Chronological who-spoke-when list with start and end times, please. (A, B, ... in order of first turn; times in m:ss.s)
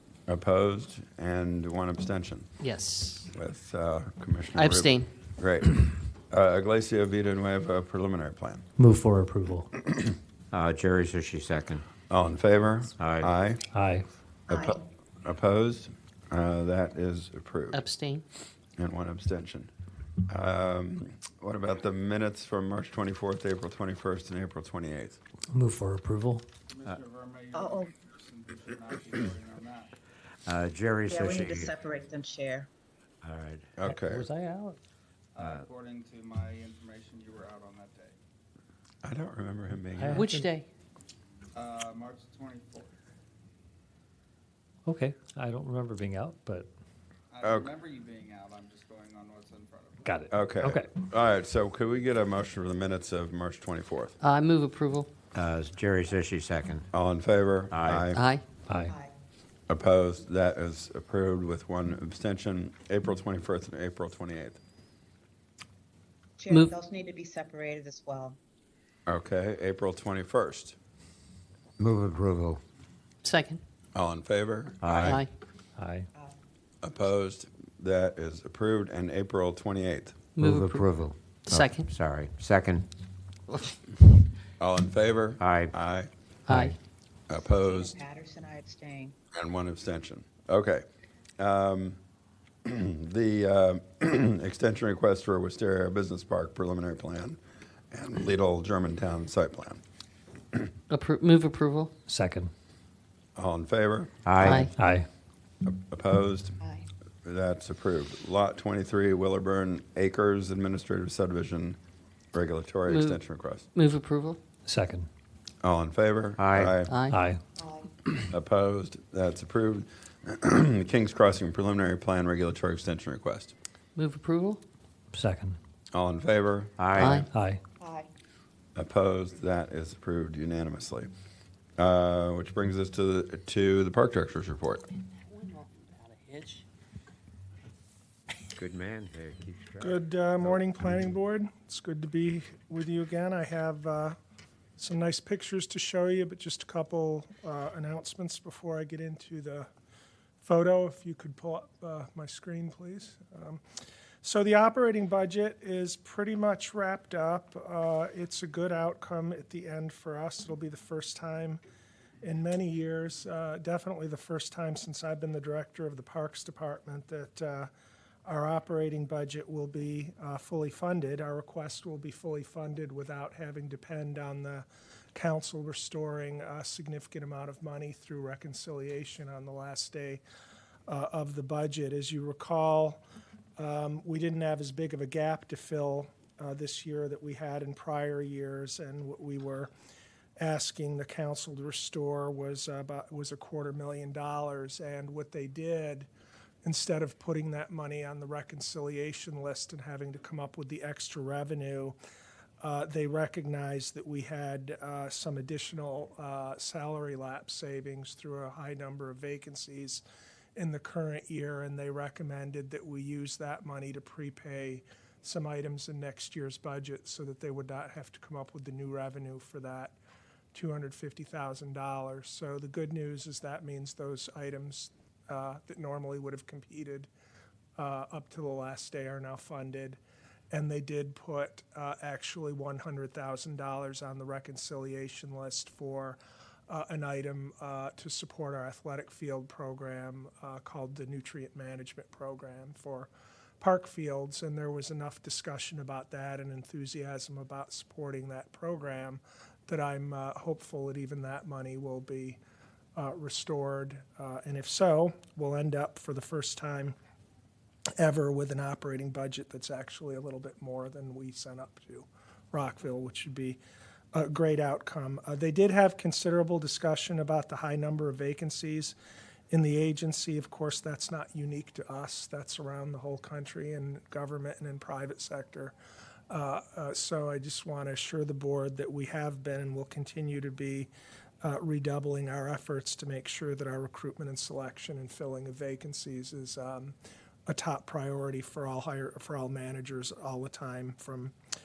0:00.3-0:02.5 A
0:02.6-0:03.3 B
0:03.3-0:08.6 A
0:04.6-0:05.1 B
0:08.8-0:09.7 C
0:10.5-0:11.9 D
0:12.1-0:13.6 A
0:13.0-0:13.3 D
0:13.7-0:14.1 C
0:14.5-0:14.8 E
0:14.5-0:17.8 A
0:17.7-0:18.2 B
0:18.8-0:19.7 A
0:20.3-0:25.2 A
0:25.5-0:26.4 C
0:26.7-0:29.9 F
0:27.5-0:27.9 E
0:30.5-0:31.8 D
0:31.1-0:32.7 E
0:33.2-0:33.8 D
0:33.8-0:34.2 A
0:33.9-0:34.8 C
0:35.4-0:38.2 F
0:35.4-0:35.6 D
0:39.0-0:40.3 A
0:40.0-0:40.5 C
0:40.2-0:40.7 B
0:41.5-0:42.9 F
0:44.9-0:46.7 C
0:47.3-0:50.0 F
0:47.4-0:47.7 A
0:50.0-0:50.9 C
0:50.3-0:54.2 A
0:54.2-0:55.1 B
0:55.3-0:56.9 D
0:56.9-0:58.2 A
0:57.7-0:58.1 D
0:58.1-0:58.5 B
0:58.9-0:59.1 E
0:59.7-1:04.6 A
1:06.4-1:08.4 E
1:06.5-1:06.8 B
1:09.1-1:10.8 A
1:11.8-1:12.6 D
1:13.2-1:13.6 B
1:14.0-1:15.2 A
1:14.8-1:15.1 D
1:15.0-1:15.3 B
1:15.8-1:16.1 C
1:16.8-1:20.2 A
1:20.4-1:22.9 D
1:20.4-1:20.9 B
1:21.5-1:21.9 B
1:24.6-1:26.1 A
1:25.4-1:25.7 D
1:27.3-1:28.0 A
1:27.4-1:29.2 E
1:29.3-1:30.8 A
1:31.4-1:32.0 A
1:32.6-1:37.4 A
1:37.9-1:39.8 A
1:40.9-1:41.9 B
1:42.1-1:42.5 C
1:43.4-1:44.5 A
1:44.2-1:44.8 D
1:44.4-1:44.7 B
1:44.7-1:45.1 C
1:45.6-1:46.6 A
1:46.6-1:46.9 E
1:47.2-1:51.8 A
1:52.3-1:53.7 A
1:52.9-1:53.2 B
1:53.8-1:54.4 B
1:54.7-1:55.1 C
1:55.6-1:56.9 A
1:56.4-1:56.8 D
1:56.8-1:57.2 B
1:57.1-1:57.4 C
1:57.6-1:57.9 E
1:58.3-2:03.5 A
2:04.0-2:04.6 B
2:05.1-2:05.6 C
2:05.9-2:07.3 A
2:06.8-2:07.2 D
2:07.0-2:07.3 B
2:07.2-2:07.6 C
2:07.8-2:08.1 E
2:08.8-2:11.1 A
2:11.8-2:14.8 A
2:15.3-2:16.3 C
2:16.4-2:16.6 B
2:18.6-2:20.0 D
2:19.8-2:24.2 G
2:24.8-2:29.7 G
2:30.4-2:33.6 G
2:34.2-2:41.6 G
2:42.2-2:47.7 G
2:48.2-3:00.2 G
3:00.9-3:03.0 G
3:03.6-3:09.7 G
3:10.4-3:16.1 G
3:16.6-3:22.0 G
3:22.6-3:30.0 G
3:30.6-3:40.0 G
3:40.5-3:47.1 G
3:47.8-3:50.0 G
3:50.5-4:03.1 G
4:03.6-4:12.4 G
4:13.0-4:17.0 G
4:18.0-4:23.6 G
4:24.1-4:29.0 G
4:29.5-4:35.7 G
4:36.3-4:40.9 G
4:41.4-4:47.0 G
4:47.5-4:51.3 G